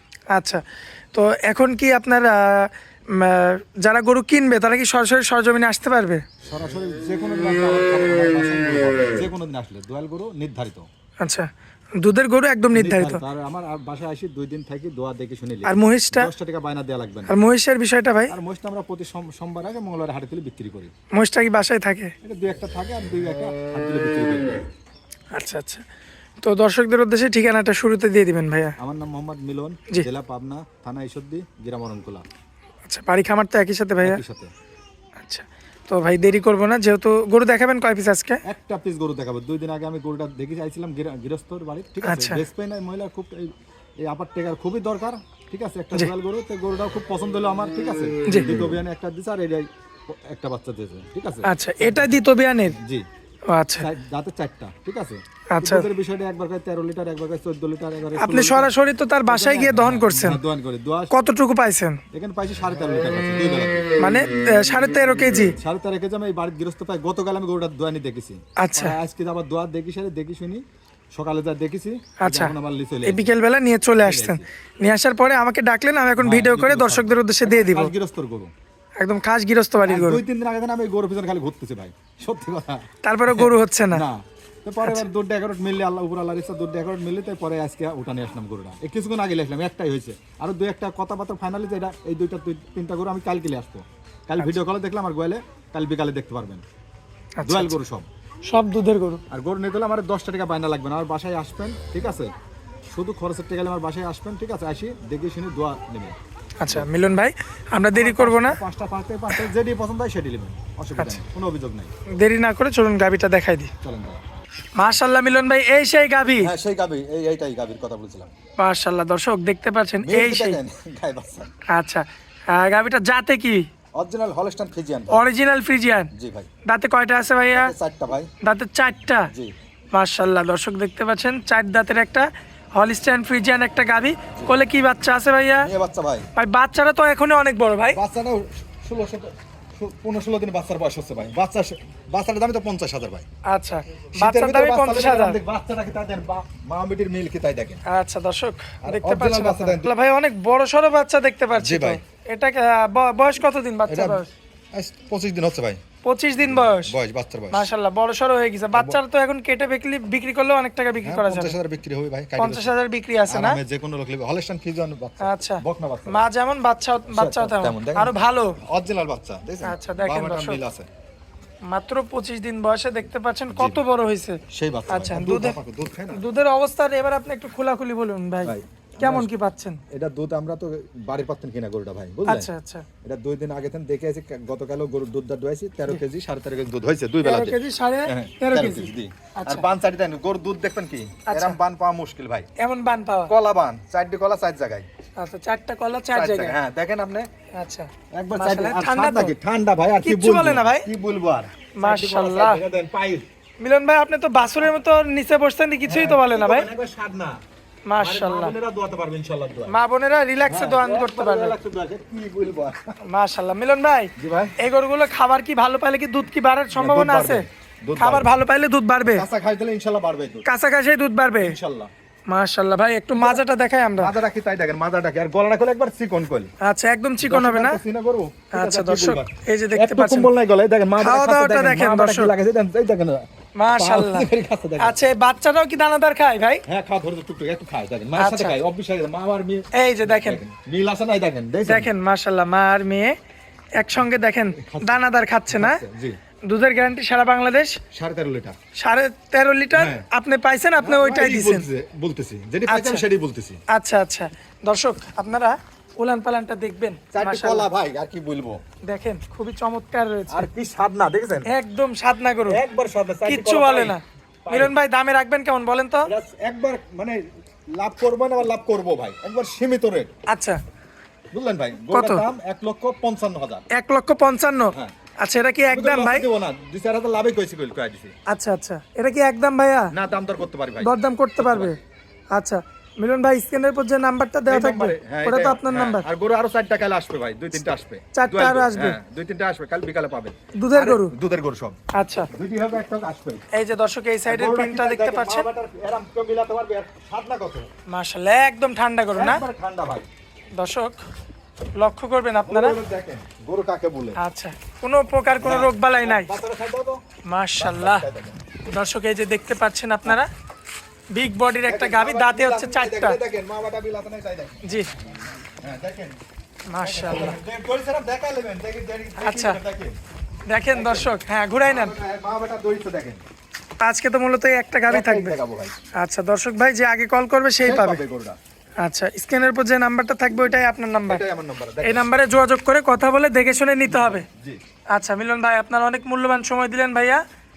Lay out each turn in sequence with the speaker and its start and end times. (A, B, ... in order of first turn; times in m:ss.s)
0:00.3-0:00.6 A
0:01.1-0:06.2 A
0:06.4-0:10.8 B
0:11.2-0:13.2 A
0:12.7-0:17.4 B
0:15.6-0:16.3 A
0:17.3-0:18.3 A
0:18.3-0:20.9 B
0:21.1-0:22.1 A
0:22.2-0:24.6 B
0:25.3-0:25.8 A
0:26.4-0:28.8 A
0:28.8-0:32.2 B
0:32.8-0:34.2 A
0:34.0-0:34.5 B
0:35.2-0:38.4 A
0:38.5-0:43.5 B
0:42.0-0:42.4 A
0:44.0-0:52.2 B
0:51.4-0:52.8 A
0:52.8-0:53.0 B
0:53.5-0:53.9 A
0:53.8-0:58.7 B
0:55.5-0:55.9 A
0:58.2-1:00.4 A
0:59.2-1:01.1 B
1:01.1-1:02.0 A
1:02.1-1:03.9 B
1:04.0-1:05.6 A
1:05.5-1:10.6 B
1:08.6-1:09.0 A
1:11.1-1:13.3 B
1:12.2-1:12.5 A
1:13.0-1:17.9 A
1:14.0-1:14.4 B
1:16.2-1:18.5 B
1:19.0-1:20.2 A
1:19.8-1:36.6 B
1:23.0-1:24.0 A
1:37.4-1:37.7 A
1:37.4-1:38.1 B
1:38.5-1:39.2 A
1:39.3-1:42.3 B
1:42.9-1:46.9 B
1:46.6-1:48.6 A
1:47.9-1:51.9 B
1:52.1-1:53.7 A
1:53.8-1:54.2 B
1:54.8-1:56.5 A
1:56.4-1:58.3 B
1:58.6-2:00.6 A
2:00.0-2:01.5 B
2:01.7-2:03.6 A
2:04.0-2:05.2 B
2:05.1-2:06.1 A
2:06.1-2:06.5 B
2:06.6-2:07.7 A
2:07.5-2:08.3 B
2:08.4-2:09.3 A
2:09.9-2:15.7 A
2:15.6-2:16.3 B
2:16.4-2:18.0 A
2:17.9-2:23.2 B
2:23.5-2:25.4 A
2:24.1-2:27.8 B
2:27.9-2:34.3 A
2:28.8-2:29.9 B
2:31.6-2:32.0 B
2:33.9-2:34.2 B
2:34.7-2:35.8 B
2:36.0-2:36.9 A
2:36.4-2:37.7 B
2:37.5-2:41.6 A
2:38.7-2:39.0 B
2:41.0-2:42.7 B
2:42.4-2:43.6 A
2:43.3-2:46.2 B
2:45.2-2:48.6 A
2:47.1-2:50.9 B
2:49.6-2:50.6 A
2:51.7-2:55.6 A
2:53.5-2:53.8 B
2:54.5-2:56.2 B
2:56.1-2:59.8 A
2:58.4-2:59.3 B
2:59.9-3:02.5 B
3:02.3-3:02.8 A
3:03.0-3:12.5 B
3:07.2-3:09.6 A
3:11.3-3:11.6 A
3:12.6-3:13.3 A
3:13.3-3:14.9 B
3:15.2-3:16.5 A
3:16.1-3:17.3 B
3:17.5-3:19.3 A
3:18.1-3:23.2 B
3:20.0-3:20.9 A
3:21.7-3:22.6 A
3:23.6-3:26.7 A
3:25.8-3:27.4 B
3:27.9-3:28.5 A
3:28.0-3:29.7 B
3:29.7-3:31.5 A
3:30.4-3:33.0 B
3:33.0-3:37.4 A
3:34.2-3:34.5 B
3:36.7-3:38.3 B
3:38.0-3:39.2 A
3:39.0-3:40.5 B
3:40.4-3:41.6 A
3:41.4-3:41.9 B
3:42.3-3:44.1 A
3:43.1-3:43.4 B
3:44.0-3:46.5 B
3:46.6-3:47.8 A
3:47.2-3:55.0 B
3:48.5-3:50.3 A
3:51.0-3:52.3 A
3:53.6-3:56.6 A
3:56.7-4:01.9 B
3:58.2-3:58.6 A
3:59.7-4:00.4 A
4:01.7-4:03.1 A
4:03.8-4:05.8 A
4:04.6-4:06.2 B
4:06.5-4:07.8 A
4:07.9-4:08.5 B
4:08.8-4:11.6 A
4:09.7-4:10.0 B
4:10.8-4:13.6 B
4:12.7-4:13.0 A
4:13.7-4:17.7 A
4:17.1-4:18.6 B
4:18.8-4:20.5 A
4:20.3-4:21.5 B
4:21.4-4:22.6 A
4:22.5-4:24.7 B
4:23.2-4:26.1 A
4:26.0-4:27.2 B
4:27.7-4:30.1 B
4:30.3-4:30.6 A
4:31.3-4:33.6 B
4:31.9-4:32.2 A
4:33.7-4:36.2 A
4:35.7-4:38.1 B
4:38.3-4:39.9 A
4:39.9-4:41.7 B
4:40.8-4:41.8 A
4:42.3-4:46.0 A
4:44.5-4:51.8 B
4:48.1-4:49.0 A
4:50.6-4:51.1 A
4:51.9-4:52.3 A
4:52.3-4:53.4 B
4:53.5-4:55.4 A
4:54.3-4:57.7 B
4:57.9-4:59.4 A
4:59.2-5:00.1 B
5:00.5-5:01.0 A
5:01.8-5:02.8 A
5:02.4-5:04.2 B
5:04.2-5:06.3 A
5:05.4-5:07.0 B
5:07.2-5:08.0 A
5:07.6-5:08.4 B
5:08.6-5:10.3 A
5:11.1-5:13.2 A
5:11.7-5:14.7 B
5:14.6-5:14.9 A
5:15.4-5:16.2 B
5:16.7-5:17.4 A
5:16.8-5:20.0 B
5:19.2-5:19.6 A
5:20.5-5:21.9 A
5:20.7-5:23.2 B
5:23.8-5:25.3 A
5:24.9-5:25.7 B
5:25.9-5:28.0 A
5:27.6-5:28.4 B
5:28.8-5:31.2 A
5:31.0-5:32.1 B
5:31.8-5:34.2 A
5:33.9-5:34.6 B
5:34.9-5:37.2 A